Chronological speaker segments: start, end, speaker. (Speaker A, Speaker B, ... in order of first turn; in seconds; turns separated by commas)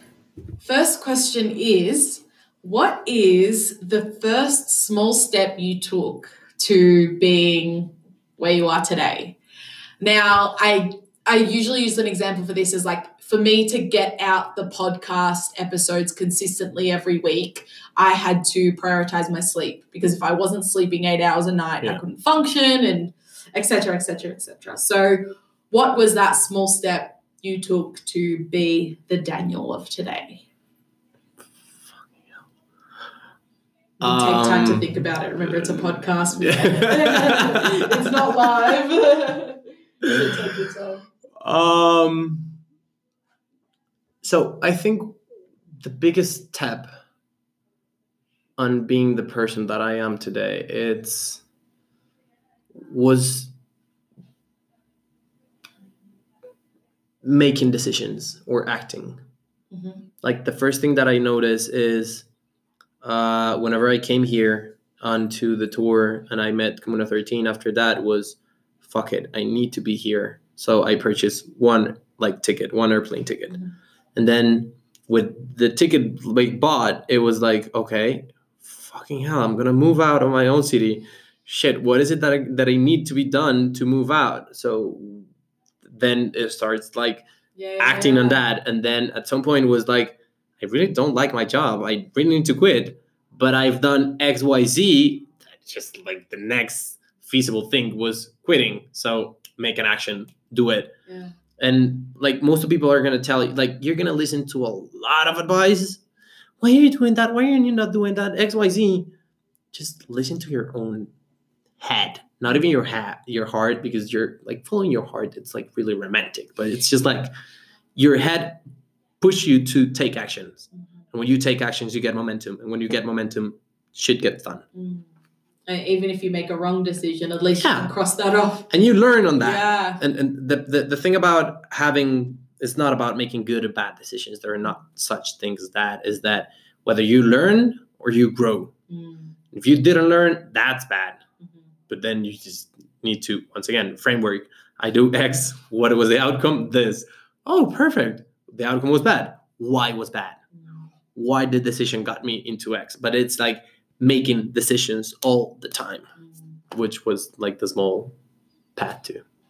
Speaker A: 0.6-9.4, Speaker A: 10.0-30.4, Speaker A: 34.0-41.0, Speaker B: 34.0-34.9, Speaker B: 36.4-37.6, Speaker B: 41.4-42.6, Speaker B: 44.2-45.2, Speaker B: 45.8-46.9, Speaker B: 48.6-51.4, Speaker B: 52.8-53.5, Speaker B: 57.2-59.2, Speaker A: 59.7-60.1, Speaker B: 60.2-62.3, Speaker B: 63.0-73.6, Speaker B: 74.2-85.3, Speaker B: 85.8-87.2, Speaker A: 87.5-88.4, Speaker B: 87.8-100.9, Speaker A: 101.1-101.3, Speaker B: 101.6-106.0, Speaker B: 106.6-109.1, Speaker B: 109.7-111.1, Speaker B: 111.8-117.3, Speaker B: 118.0-118.6, Speaker B: 119.2-124.6, Speaker A: 124.7-125.1, Speaker A: 125.7-128.7, Speaker B: 127.6-127.9, Speaker B: 128.7-138.7, Speaker A: 129.4-130.0, Speaker A: 138.9-139.3, Speaker B: 139.5-141.2, Speaker B: 141.9-150.4, Speaker B: 151.1-156.1, Speaker B: 156.7-158.1, Speaker B: 158.8-159.2